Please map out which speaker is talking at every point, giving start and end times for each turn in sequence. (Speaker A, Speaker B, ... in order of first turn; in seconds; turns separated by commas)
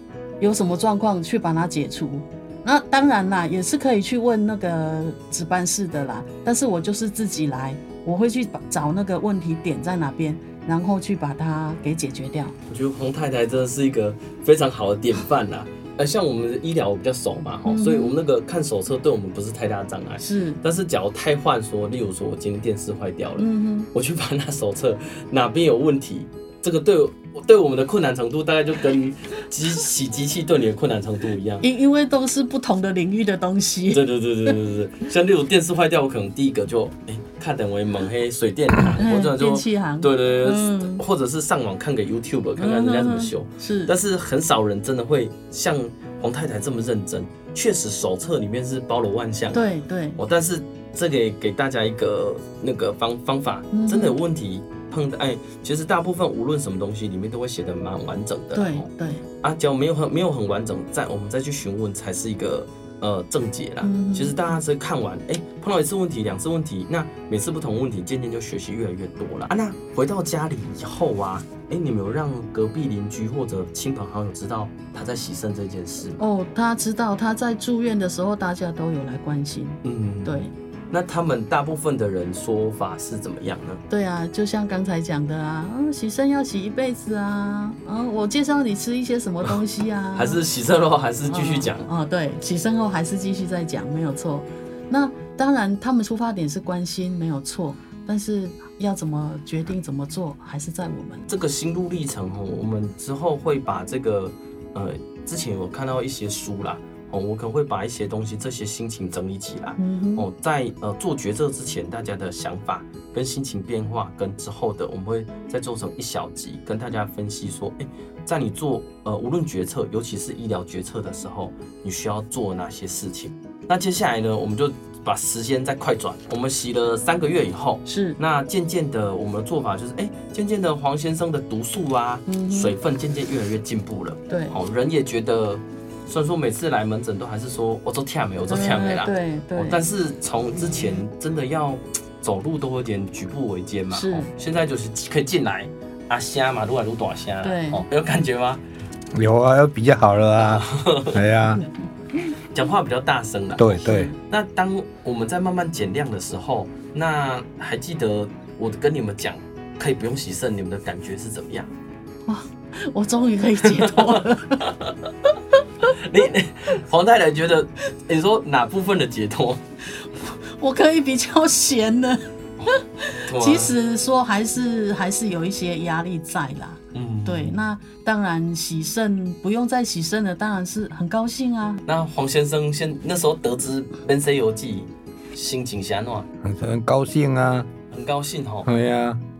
Speaker A: 0.4-12.5, Speaker B: 12.7-31.6, Speaker A: 17.6-18.2, Speaker A: 20.2-20.6, Speaker A: 23.4-23.9, Speaker A: 31.6-34.6, Speaker B: 33.9-49.6, Speaker A: 39.0-41.0, Speaker A: 42.6-43.9, Speaker A: 49.5-50.2, Speaker B: 50.2-58.9, Speaker A: 53.7-54.2, Speaker A: 58.5-59.2, Speaker B: 59.4-76.2, Speaker A: 63.8-64.4, Speaker A: 76.2-80.5, Speaker B: 79.8-83.8, Speaker A: 83.9-90.4, Speaker B: 90.1-91.9, Speaker A: 91.3-101.2, Speaker B: 101.3-148.6, Speaker A: 109.8-110.3, Speaker A: 127.8-128.2, Speaker A: 132.3-132.8, Speaker A: 134.3-134.6, Speaker A: 138.5-139.8, Speaker A: 143.9-144.3, Speaker A: 147.4-147.8, Speaker C: 149.1-151.6, Speaker B: 150.4-151.2, Speaker B: 152.5-161.7, Speaker C: 153.6-154.1, Speaker A: 153.8-154.1, Speaker A: 162.3-164.7, Speaker B: 163.7-164.2, Speaker B: 165.8-169.6, Speaker A: 170.6-181.8, Speaker B: 173.3-173.8, Speaker B: 176.9-177.6, Speaker B: 181.9-186.3, Speaker C: 186.4-187.7, Speaker B: 187.9-188.7, Speaker C: 188.6-189.2